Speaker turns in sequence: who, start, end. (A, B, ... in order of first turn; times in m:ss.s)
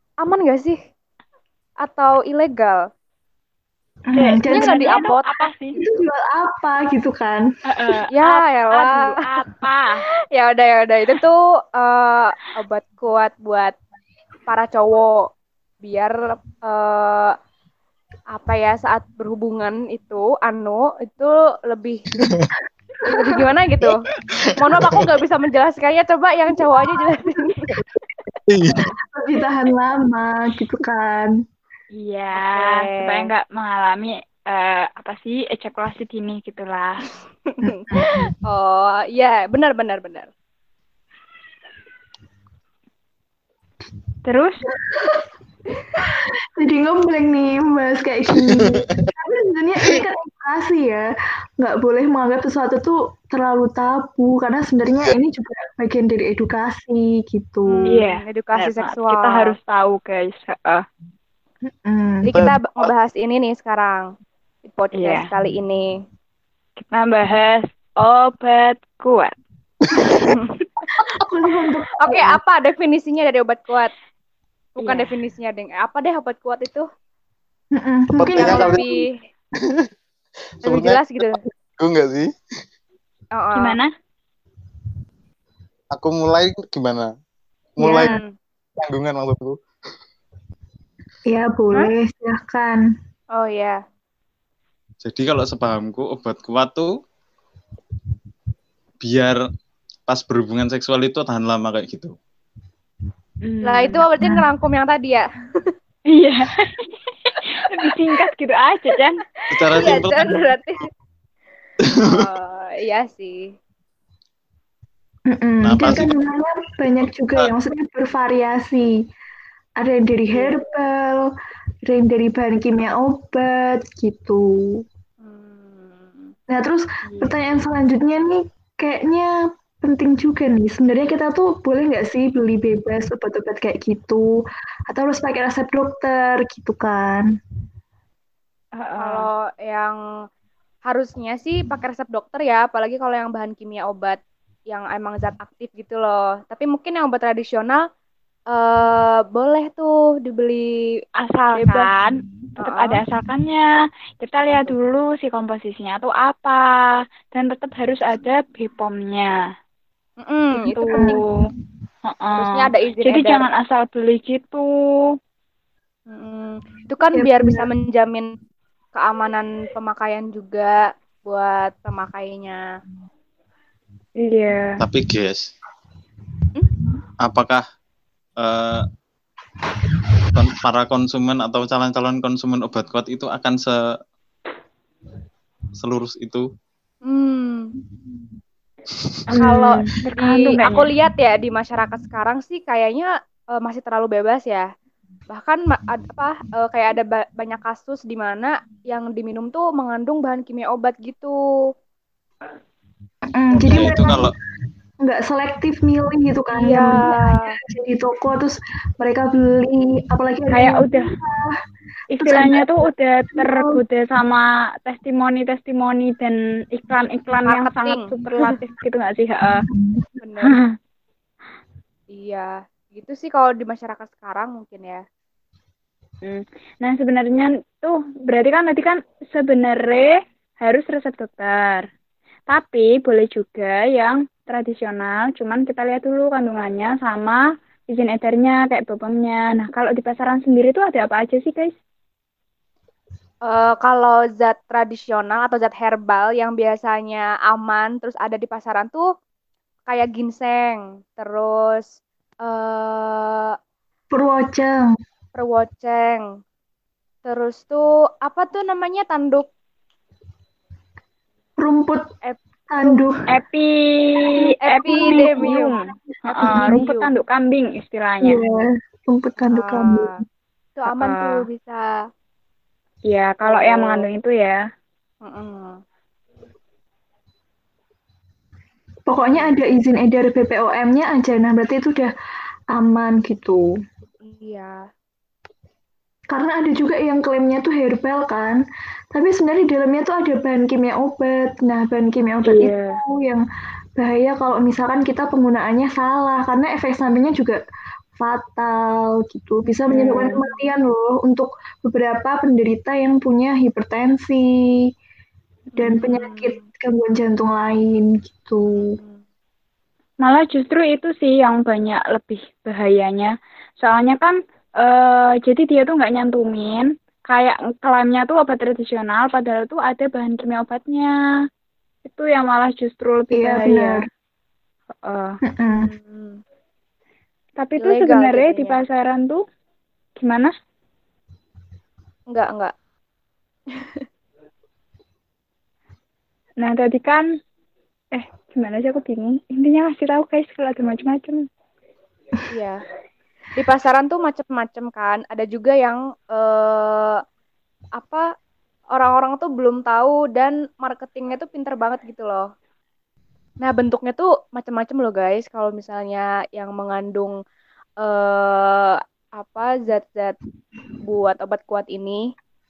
0:00.2-0:00.8 A
0:01.8-0:02.8 A
0:04.1-0:05.0 B
0:04.2-0:05.8 C
0:04.5-0:05.4 A
0:05.8-0:07.4 B
0:07.7-0:10.0 C
0:08.1-0:09.1 A
0:10.3-0:13.7 A
0:14.5-0:15.3 A
0:15.8-0:17.3 A
0:18.3-0:22.1 A
0:22.2-0:22.5 D
0:23.0-0:24.0 A
0:24.6-0:27.8 A
0:24.6-0:25.1 D
0:28.5-0:28.8 D
0:29.1-0:31.3 B
0:31.9-0:37.0 C
0:32.3-0:33.3 A
0:37.6-0:38.3 B
0:37.6-0:40.3 A
0:44.2-0:44.6 C
0:44.8-0:45.2 B
0:46.0-0:51.0 B
0:48.5-0:49.1 D
0:51.6-0:58.0 B
0:57.6-0:59.5 A
0:57.9-1:00.8 C
1:01.6-1:02.5 B
1:02.2-1:04.1 A
1:02.3-1:02.9 D
1:04.6-1:05.9 A
1:04.9-1:05.3 C
1:06.8-1:09.3 C
1:10.0-1:10.3 D
1:10.2-1:10.9 A
1:10.9-1:12.4 B
1:12.0-1:13.9 A
1:14.8-1:15.1 C
1:14.8-1:16.9 A
1:17.8-1:18.9 B
1:18.2-1:18.9 D
1:18.4-1:19.1 A
1:19.6-1:19.9 D
1:20.6-1:22.3 D
1:20.6-1:21.4 A
1:23.3-1:23.8 A
1:23.5-1:23.9 C
1:25.9-1:27.1 D
1:27.8-1:28.1 D
1:27.8-1:28.2 B
1:28.0-1:28.3 A
1:28.8-1:29.6 D
1:31.3-1:32.8 B
1:33.3-1:33.8 A
1:35.0-1:36.9 D
1:39.0-1:39.4 D
1:40.1-1:42.1 D
1:43.4-1:44.0 C
1:43.6-1:45.7 A
1:46.1-1:49.2 C
1:49.5-1:50.5 D
1:49.6-1:50.9 A
1:51.9-1:52.3 D
1:52.0-1:53.5 A
1:55.3-1:59.0 B
1:55.6-1:56.1 D
1:59.8-2:01.3 B
2:00.3-2:00.6 A
2:01.8-2:04.8 B
2:05.2-2:06.3 A
2:06.5-2:14.2 B
2:14.9-2:17.3 B
2:18.8-2:19.3 C
2:19.0-2:20.0 A
2:20.8-2:27.8 A
2:28.5-2:30.7 A
2:31.2-2:33.6 C
2:31.6-2:31.9 A
2:32.6-2:33.0 A
2:34.2-2:36.6 C
2:34.4-2:34.8 A
2:37.3-2:39.3 C
2:40.2-2:41.2 A
2:40.6-2:41.2 C
2:40.9-2:41.2 B
2:42.0-2:44.7 C
2:42.4-2:43.4 A
2:46.1-2:48.3 A
2:47.1-2:47.7 B
2:48.9-2:52.6 A
2:54.2-2:54.7 C
2:54.8-2:55.5 D
2:57.2-2:57.6 D
2:58.4-2:58.9 D
3:00.3-3:03.8 D
3:05.8-3:06.4 D
3:07.0-3:07.7 A
3:09.3-3:10.9 C
3:09.3-3:14.7 A
3:09.4-3:09.6 B
3:15.3-3:21.4 A
3:23.3-3:24.3 B
3:23.6-3:24.3 D
3:25.0-3:31.5 B
3:26.6-3:27.6 A
3:30.5-3:31.1 C
3:32.1-3:39.6 C
3:32.2-3:32.7 B
3:33.3-3:33.8 B
3:37.4-3:38.5 A
3:39.7-3:40.1 B
3:40.2-3:40.6 A
3:42.1-3:45.0 A
3:46.2-3:51.8 C
3:52.5-3:57.4 C
3:57.9-4:01.7 C
4:03.4-4:09.0 A
4:09.9-4:11.8 A
4:12.4-4:13.5 A
4:14.1-4:14.9 B
4:15.3-4:16.2 A
4:17.2-4:19.5 A
4:21.6-4:22.1 B
4:22.2-4:23.1 A
4:22.7-4:23.2 B
4:23.3-4:28.4 C
4:24.6-4:25.7 A
4:24.8-4:25.7 B
4:26.3-4:27.1 A
4:26.4-4:26.8 B
4:28.2-4:30.2 B
4:29.4-4:30.2 A
4:30.8-4:31.8 A
4:30.9-4:31.4 C
4:33.1-4:34.6 C
4:33.4-4:34.0 A
4:35.2-4:35.8 A
4:39.1-4:42.1 B
4:39.3-4:39.6 A
4:42.7-4:43.6 B
4:44.2-4:44.8 A
4:46.3-4:48.6 B
4:49.1-4:53.4 B
4:52.4-4:53.0 C
4:54.0-4:57.6 B
4:58.2-5:04.9 B
4:59.6-5:00.2 A
4:59.9-5:00.4 C
5:05.7-5:06.6 A
5:05.8-5:09.0 B
5:08.8-5:09.2 A
5:10.2-5:21.1 C
5:22.0-5:24.0 C
5:23.3-5:24.0 B
5:25.0-5:25.4 C
5:25.5-5:25.9 B
5:25.8-5:26.4 A
5:27.6-5:29.4 C
5:27.8-5:28.8 A
5:30.2-5:30.5 C
5:32.3-5:32.7 A
5:33.7-5:34.0 A
5:36.6-5:37.2 C
5:38.1-5:41.4 C
5:42.5-5:42.8 A
5:43.5-5:47.2 A
5:48.0-5:48.3 A
5:48.9-5:52.4 A
5:53.6-5:57.3 A
5:58.0-6:00.4 A
6:01.0-6:02.2 A